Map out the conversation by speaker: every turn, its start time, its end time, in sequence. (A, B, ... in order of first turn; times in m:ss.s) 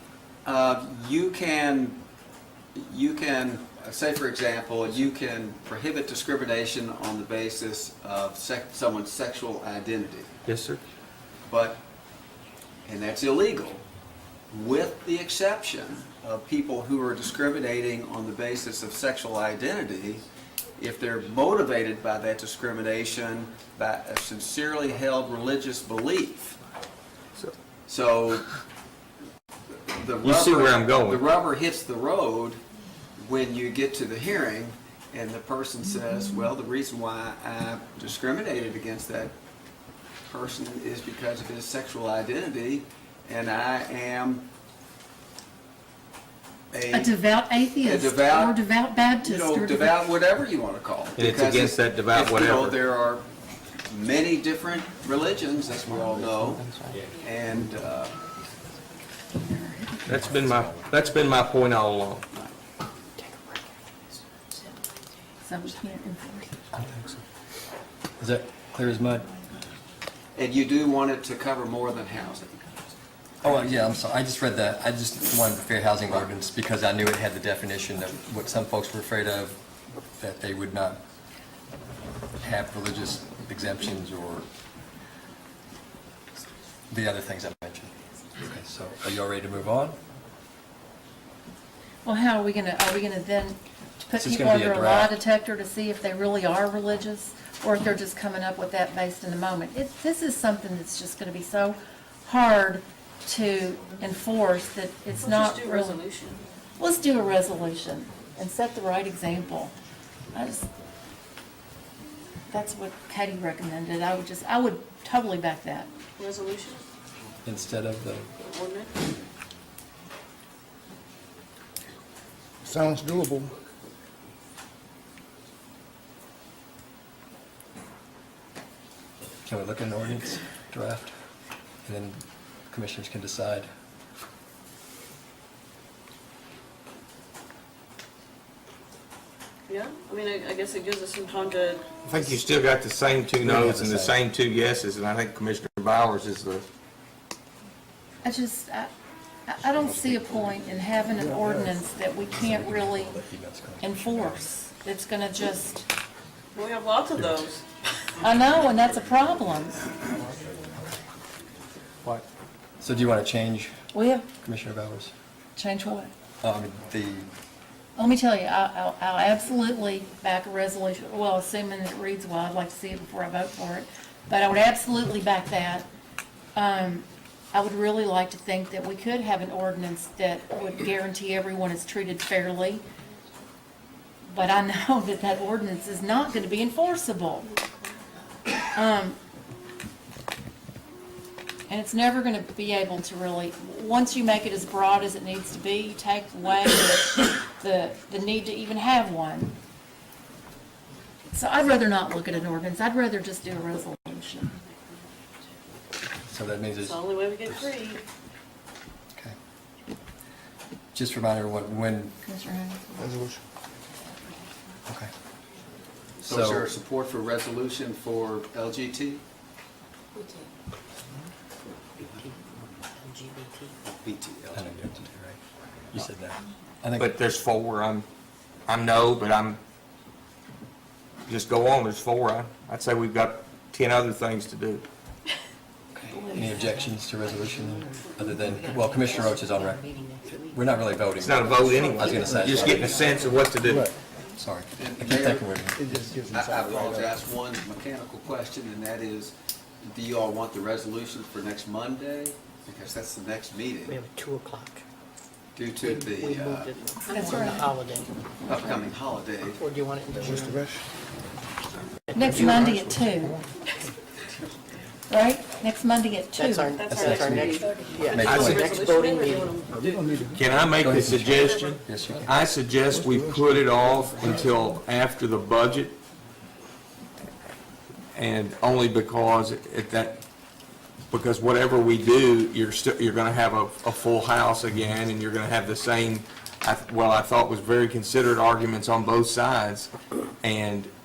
0:00.4-0:02.0 A
0:02.7-0:10.3 A
0:10.4-0:10.8 B
0:11.5-0:11.8 A
0:12.8-0:13.8 A
0:14.5-0:20.2 A
0:20.8-0:26.6 A
0:27.8-0:28.5 A
0:29.7-0:32.6 A
0:30.2-0:31.2 B
0:33.2-0:39.3 A
0:40.3-0:44.5 A
0:46.7-0:47.1 A
0:46.9-0:50.0 C
0:47.8-0:48.6 A
0:49.2-0:53.3 A
0:51.2-0:52.8 B
0:53.9-0:58.2 A
0:56.2-0:57.0 D
0:59.3-1:00.0 C
1:00.0-1:02.2 B
1:03.2-1:03.7 D
1:05.4-1:06.6 C
1:08.2-1:09.3 E
1:10.3-1:12.9 A
1:13.4-1:19.6 E
1:20.1-1:21.0 E
1:22.4-1:24.5 E
1:26.9-1:30.0 E
1:32.0-1:46.0 C
1:34.2-1:35.2 E
1:45.2-1:46.4 F
1:46.8-1:49.7 C
1:50.3-1:50.7 C
1:52.5-1:55.9 C
1:56.2-1:56.8 F
1:57.4-1:58.3 E
1:58.4-1:59.0 F
2:02.6-2:03.5 G
2:09.4-2:11.1 E
2:11.8-2:13.7 E
2:19.7-2:21.8 F
2:22.0-2:26.6 B
2:23.4-2:24.2 E
2:28.2-2:28.9 C
2:29.5-2:33.2 C
2:31.2-2:31.8 G
2:32.4-2:34.4 E
2:33.8-2:35.9 C
2:36.5-2:37.6 F
2:38.2-2:39.9 C
2:42.8-2:43.7 E
2:43.9-2:44.3 C
2:44.3-2:45.1 E
2:45.6-2:46.1 C
2:46.4-2:47.3 E
2:48.0-2:55.8 C
2:56.5-3:02.8 C
3:04.3-3:07.5 C
3:08.7-3:09.2 C
3:11.7-3:19.5 C
3:21.3-3:24.6 C
3:26.3-3:27.7 E
3:26.8-3:28.0 F
3:30.9-3:32.2 E
3:32.2-3:33.2 C
3:33.0-3:33.4 G
3:36.2-3:39.2 A
3:36.3-3:36.7 E
3:40.2-3:40.5 D
3:42.0-3:42.4 D
3:43.0-3:43.7 D
3:43.9-3:44.7 A
3:44.5-3:45.4 E
3:45.9-3:47.1 E
3:47.0-3:48.0 B
3:48.7-3:49.6 B
3:51.2-3:54.8 B
3:56.1-4:03.6 D
3:56.3-3:59.9 E
4:00.5-4:03.3 E
4:01.2-4:03.9 B
4:03.6-4:03.9 G
4:04.4-4:05.9 E
4:04.8-4:05.5 A
4:05.8-4:07.2 G
4:06.3-4:14.0 A
4:13.9-4:14.8 D
4:15.6-4:16.7 A
4:15.8-4:18.1 D
4:17.1-4:17.7 C
4:18.4-4:18.8 C
4:18.5-4:19.6 A
4:19.4-4:20.6 D
4:20.2-4:20.8 G
4:22.1-4:22.4 D
4:22.1-4:23.4 C
4:22.3-4:23.4 B
4:22.4-4:22.6 G
4:25.1-4:27.0 C
4:26.3-4:29.6 D
4:26.7-4:30.1 F
4:26.9-4:28.7 E
4:28.3-4:28.6 B
4:29.7-4:30.5 G
4:30.3-4:36.0 B
4:30.7-4:32.3 E
4:31.4-4:31.8 F
4:32.9-4:34.8 G
4:38.1-4:40.2 B
4:41.1-4:50.9 B